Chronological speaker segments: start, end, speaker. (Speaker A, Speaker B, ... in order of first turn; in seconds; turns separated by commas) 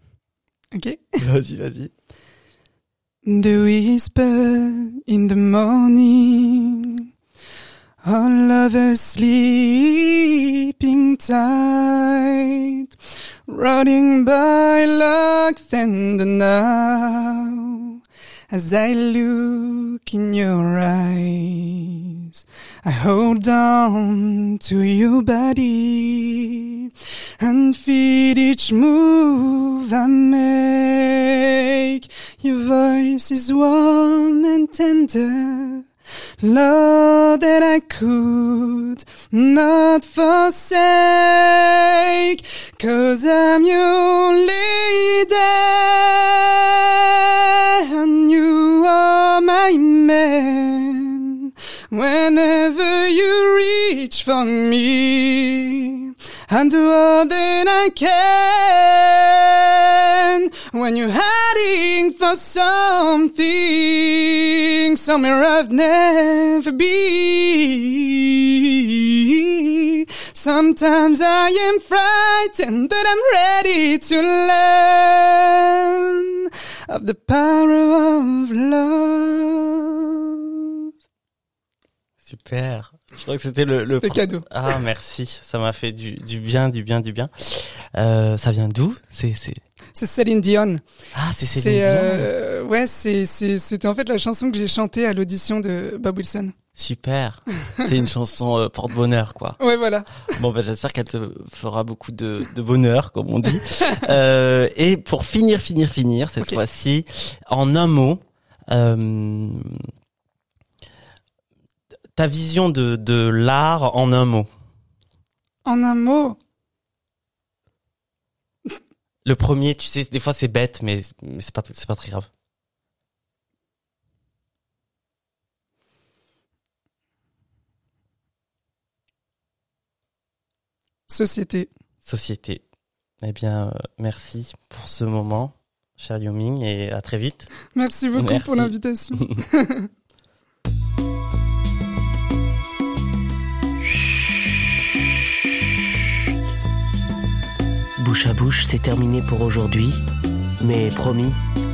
Speaker A: 0.7-1.2, Speaker B: 1.2-1.9, Speaker A: 3.2-7.0, Speaker A: 8.0-12.8, Speaker A: 13.5-17.9, Speaker A: 18.5-26.9, Speaker A: 27.4-35.9, Speaker A: 36.4-80.9, Speaker B: 82.2-89.6, Speaker A: 83.9-84.5, Speaker A: 90.0-90.8, Speaker B: 91.1-92.3, Speaker A: 91.5-96.5, Speaker B: 96.8-99.6, Speaker A: 99.6-100.3, Speaker B: 100.3-109.8, Speaker B: 112.2-114.5, Speaker A: 115.6-116.4, Speaker B: 119.2-122.3, Speaker A: 131.1-131.7, Speaker B: 132.0-132.6, Speaker B: 133.2-137.5, Speaker A: 137.7-139.9, Speaker B: 138.2-139.4, Speaker C: 148.0-150.0, Speaker C: 150.6-151.4